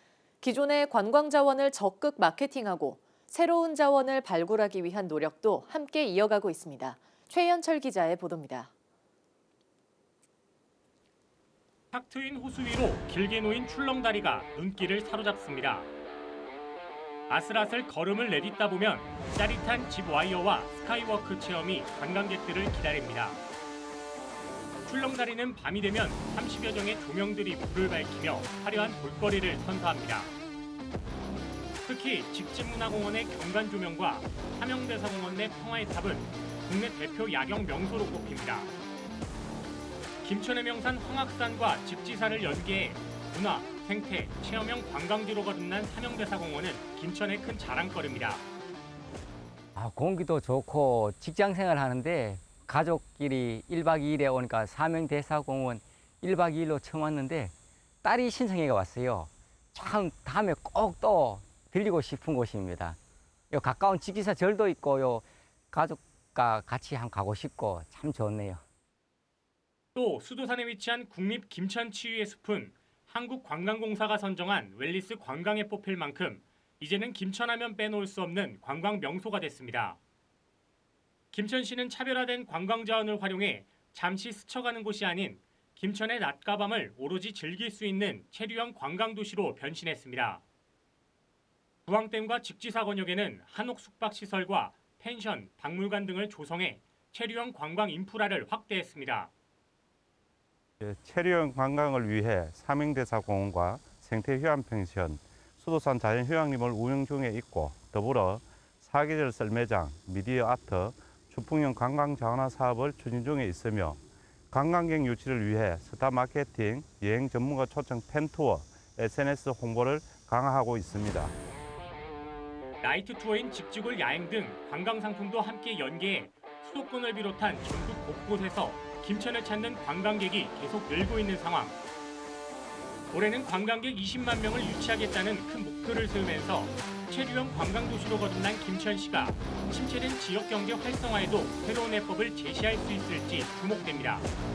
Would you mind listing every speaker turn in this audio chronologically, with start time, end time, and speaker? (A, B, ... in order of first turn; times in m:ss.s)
0:00.4-0:08.7 A
0:11.9-0:15.9 B
0:17.3-0:23.4 B
0:24.8-0:30.3 B
0:31.8-0:38.7 B
0:40.2-0:48.5 B
0:49.8-1:03.0 C
1:03.5-1:08.6 C
1:10.0-1:20.0 B
1:21.3-1:30.4 B
1:31.9-1:39.3 B
1:40.8-2:01.4 D
2:02.8-2:11.8 B
2:13.1-2:24.3 B